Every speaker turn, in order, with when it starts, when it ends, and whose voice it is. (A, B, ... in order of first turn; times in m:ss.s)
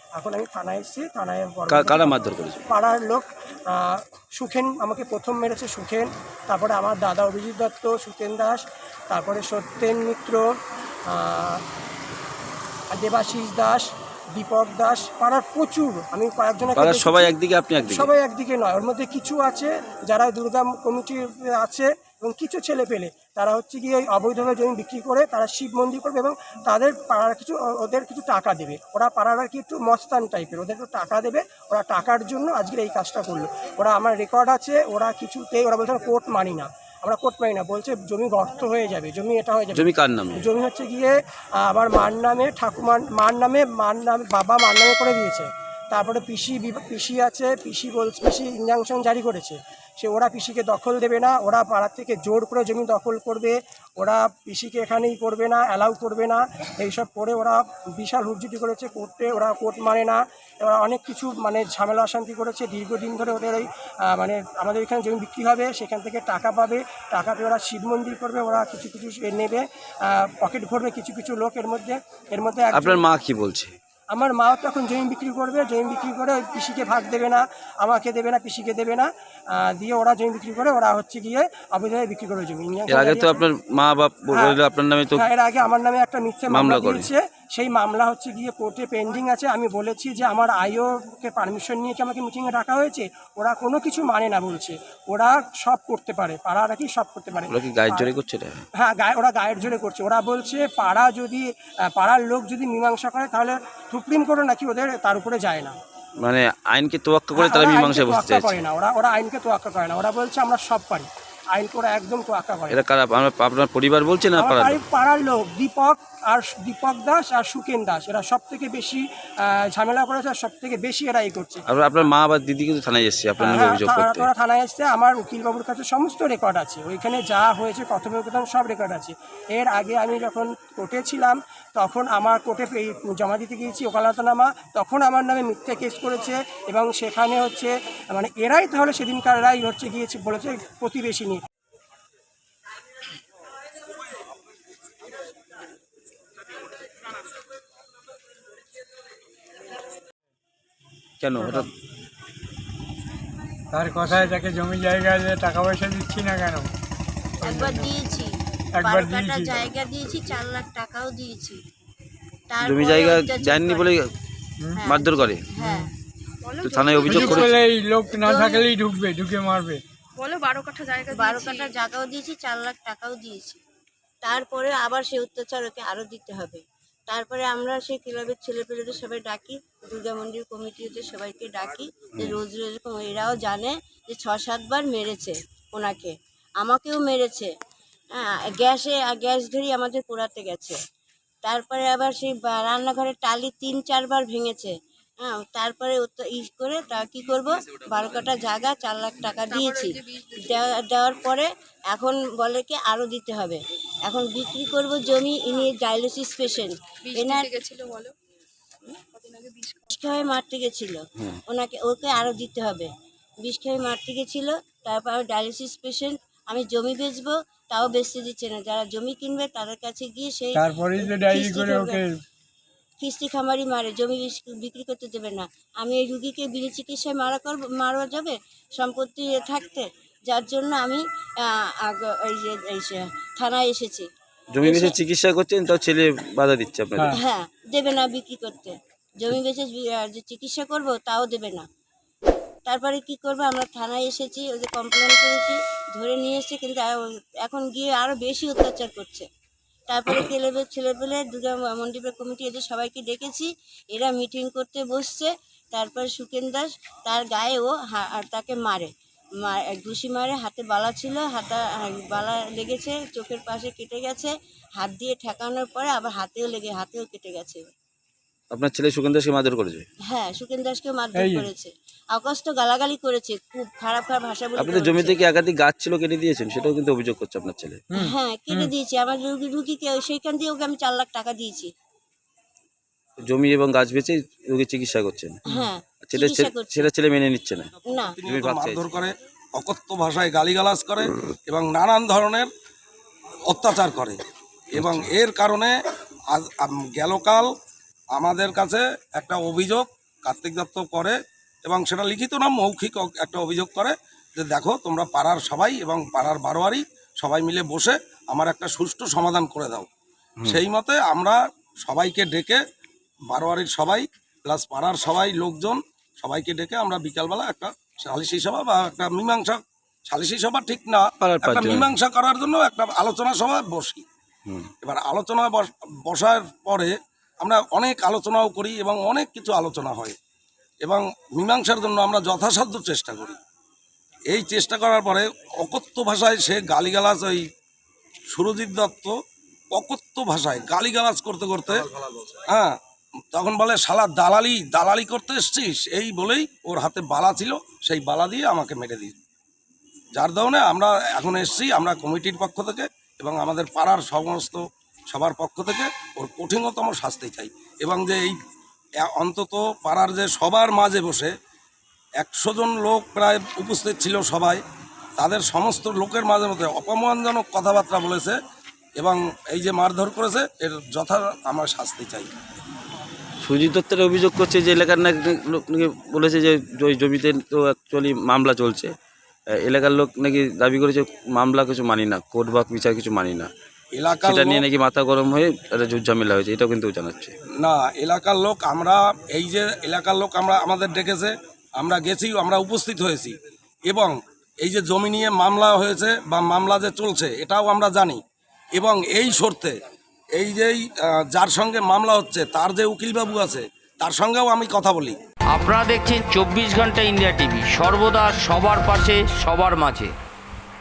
0:00.2-0:10.5 A
0:01.7-0:02.6 B
0:11.1-0:11.6 A
0:12.9-1:13.0 A
0:16.8-0:18.1 B
0:39.7-0:40.4 B
1:12.8-1:13.7 B
1:14.1-1:23.4 A
1:22.9-1:25.2 B
1:24.3-1:24.6 A
1:25.1-1:38.1 A
1:26.5-1:27.1 B
1:37.5-1:38.6 B
1:38.8-1:45.7 A
1:46.2-1:48.6 B
1:47.3-1:52.8 A
1:52.7-1:54.8 B
1:54.4-2:01.6 A
2:01.7-2:04.3 B
2:03.4-2:21.4 A
2:31.2-2:31.7 B
2:33.7-2:36.7 C
2:34.0-2:34.4 D
2:37.4-2:41.6 D
2:38.8-2:39.6 C
2:42.5-2:43.9 D
2:42.6-2:44.0 B
2:44.8-2:45.9 D
2:44.8-2:45.5 B
2:46.4-2:47.5 E
2:46.6-2:47.6 B
2:47.1-2:47.5 D
2:47.2-2:49.8 C
2:48.0-2:48.7 D
2:50.2-2:51.7 E
2:51.1-2:53.6 D
2:54.2-3:07.5 D
3:08.1-3:10.8 D
3:11.4-3:14.7 D
3:15.2-3:27.7 D
3:19.4-3:20.5 E
3:27.0-3:28.1 E
3:29.1-3:29.9 E
3:29.9-3:32.9 D
3:33.4-3:42.0 D
3:40.5-3:42.1 C
3:43.0-3:54.0 D
3:54.5-3:57.2 B
3:54.6-3:54.9 D
3:57.2-4:01.6 D
4:02.6-4:09.2 D
4:09.9-4:18.9 D
4:19.4-4:27.7 D
4:28.5-4:29.8 B
4:30.1-4:35.2 D
4:31.1-4:31.5 C
4:34.6-4:37.9 B
4:38.0-4:41.7 D
4:38.0-4:38.7 C
4:43.3-4:45.4 B
4:45.5-4:46.9 D
4:46.0-4:49.0 B
4:48.0-4:52.5 F
4:53.5-4:54.2 F
4:54.8-4:55.1 B
4:54.8-4:55.7 F
4:56.3-4:57.5 F
4:58.1-5:09.9 F
5:10.5-5:12.6 F
5:13.3-5:24.0 F
5:21.2-5:21.9 B
5:24.8-5:30.1 F
5:30.8-5:33.3 F
5:34.3-5:37.4 F
5:38.3-5:39.1 F
5:39.7-5:41.9 F
5:42.4-5:42.8 F
5:43.3-5:49.2 F
5:50.1-5:58.4 F
5:59.0-6:01.3 F
6:02.2-6:04.6 F
6:05.2-6:08.4 F
6:09.0-6:12.3 F
6:13.4-6:18.9 B
6:19.5-6:23.5 B
6:23.9-6:24.6 F
6:24.2-6:27.3 B
6:27.6-6:33.3 F
6:33.9-6:38.2 F
6:38.7-6:39.7 F
6:40.3-6:45.2 F
6:45.5-6:50.1 G
6:45.6-6:49.8 B